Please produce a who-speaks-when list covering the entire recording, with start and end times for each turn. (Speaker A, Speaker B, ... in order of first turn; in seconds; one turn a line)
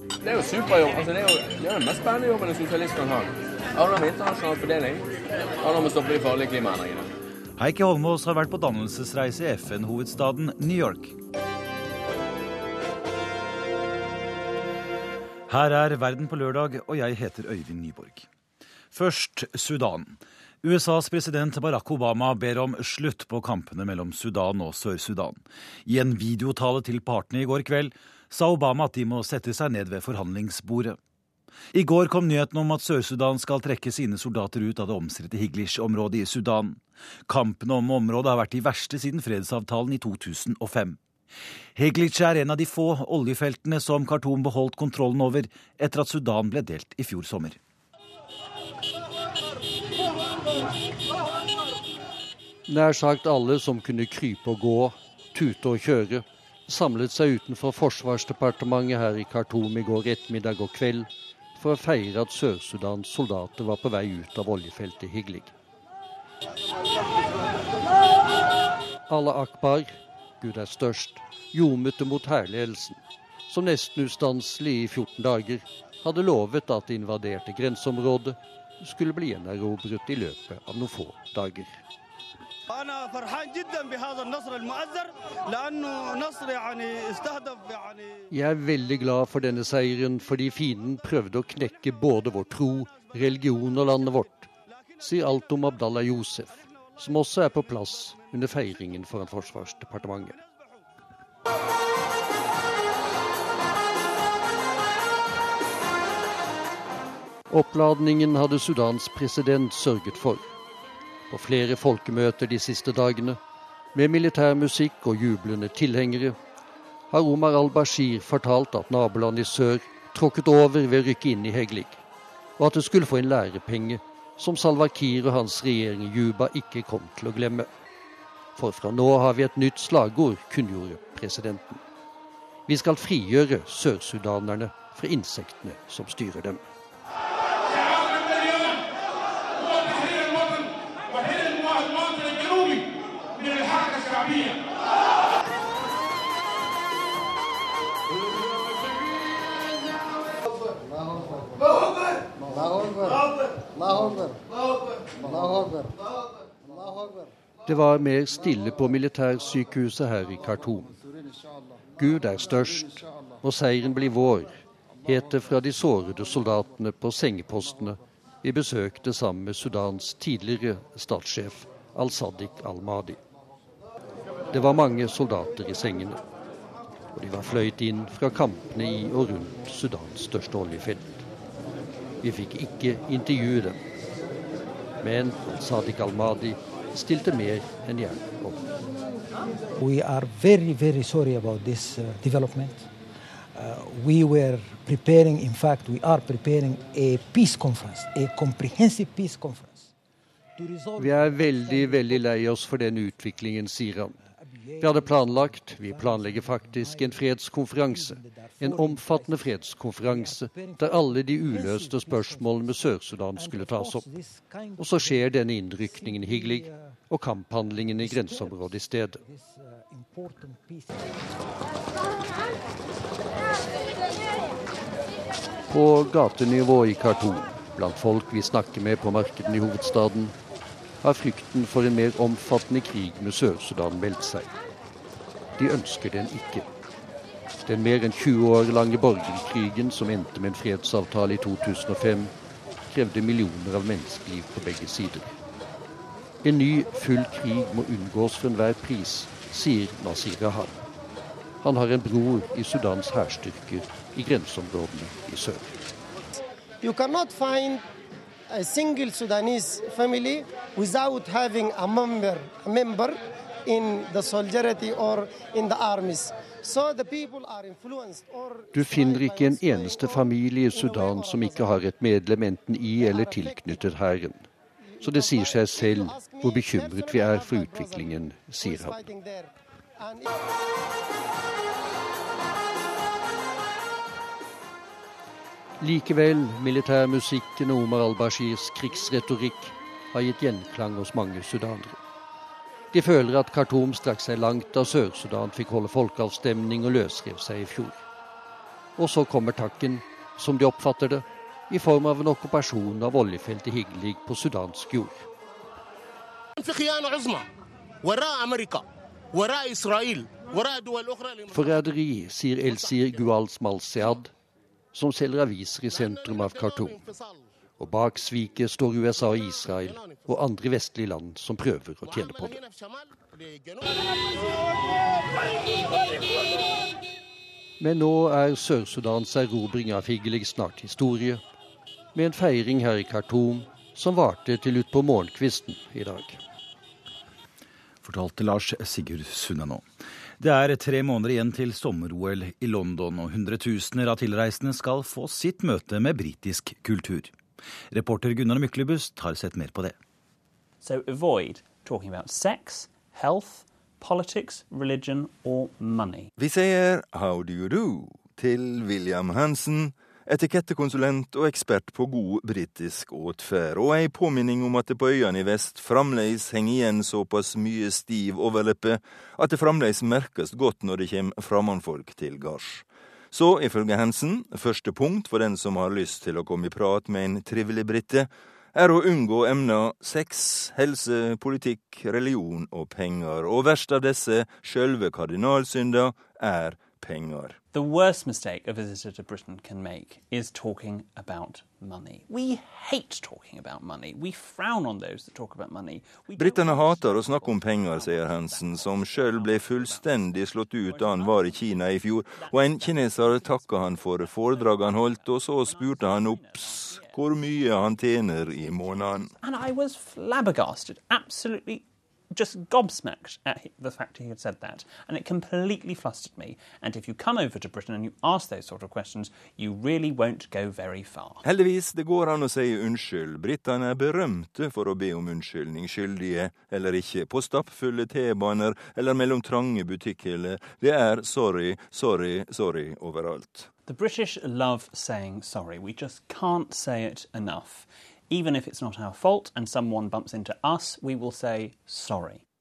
Speaker A: 0.2-7.1
Speaker B: 7.6-11.2
Speaker B: 15.5-18.3
Speaker B: 18.9-31.0
Speaker B: 31.7-41.0
Speaker B: 41.8-47.6
Speaker C: 52.7-65.5
Speaker C: 69.1-81.8
Speaker C: 88.3-100.4
Speaker C: 107.5-110.5
Speaker C: 111.3-113.4
Speaker C: 113.9-116.4
Speaker C: 117.1-122.0
Speaker C: 122.6-127.7
Speaker C: 128.6-131.8
Speaker C: 132.7-136.6
Speaker C: 157.7-161.0
Speaker C: 162.0-173.2
Speaker C: 174.5-176.2
Speaker C: 177.2-181.2
Speaker C: 182.2-183.8
Speaker C: 185.0-188.7
Speaker D: 189.8-192.9
Speaker D: 193.6-199.9
Speaker D: 200.6-202.3
Speaker C: 201.0-204.2
Speaker D: 204.3-217.0
Speaker C: 204.8-214.1
Speaker C: 214.8-219.2
Speaker D: 218.0-221.2
Speaker C: 225.7-230.3
Speaker C: 231.0-234.5
Speaker C: 235.6-236.7
Speaker C: 237.7-242.3
Speaker C: 242.9-245.4
Speaker C: 246.4-250.8
Speaker C: 251.6-255.8
Speaker E: 256.8-257.9
Speaker E: 258.5-271.8
Speaker C: 268.7-274.5
Speaker E: 273.0-273.8
Speaker E: 275.0-280.2
Speaker C: 275.0-279.0
Speaker C: 285.8-292.0
Speaker C: 292.9-298.1
Speaker C: 299.0-305.3
Speaker E: 306.6-307.5
Speaker E: 308.0-311.8
Speaker C: 311.5-314.3
Speaker E: 312.6-313.2
Speaker C: 314.9-317.1
Speaker E: 315.9-317.4
Speaker C: 317.8-322.6
Speaker E: 319.7-320.3
Speaker E: 322.0-323.8
Speaker C: 327.8-331.4
Speaker C: 332.1-336.4
Speaker B: 338.0-339.9
Speaker B: 340.4-347.3
Speaker B: 347.9-350.0
Speaker F: 350.8-356.3
Speaker G: 356.4-387.6
Speaker F: 387.7-407.2
Speaker G: 396.4-409.3
Speaker F: 409.4-421.4
Speaker G: 421.4-433.7
Speaker F: 433.9-442.4